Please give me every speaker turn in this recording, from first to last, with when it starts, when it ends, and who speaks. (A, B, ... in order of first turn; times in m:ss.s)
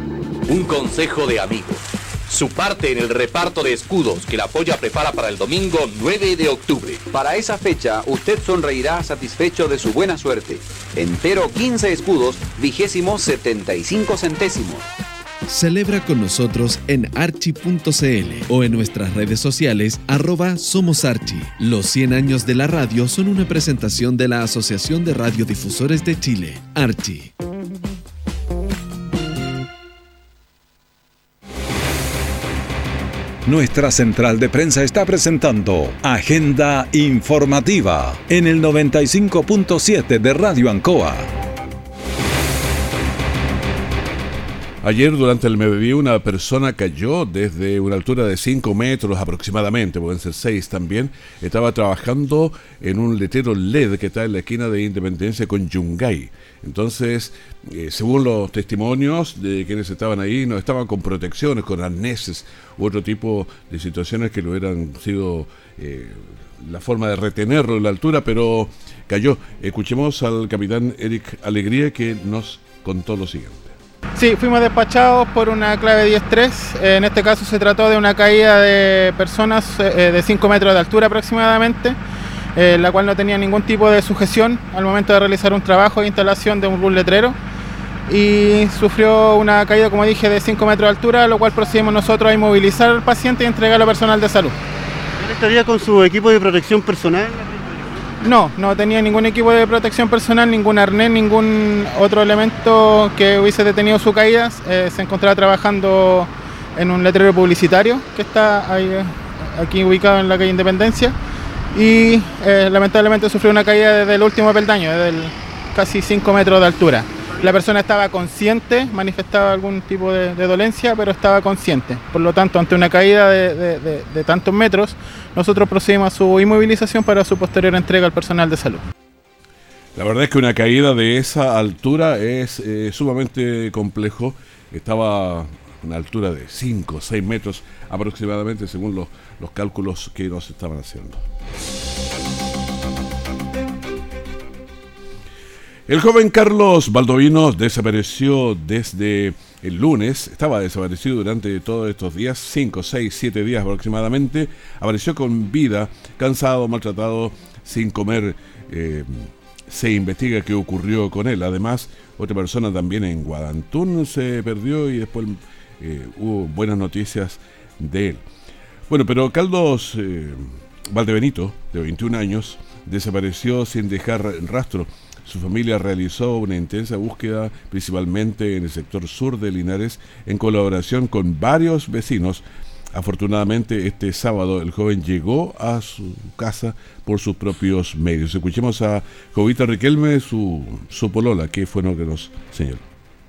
0:00.5-0:14.8 A
0:15.5-0:27.3 B
0:33.4-0:41.3 C
0:44.8-1:13.7 D
1:14.2-1:22.0 E
1:22.6-1:27.4 E
1:28.1-1:34.6 E
1:35.2-1:38.2 F
1:38.2-1:51.2 E
1:51.7-2:08.8 E
2:10.0-2:21.2 D
2:25.9-2:48.2 D
2:48.9-3:12.8 D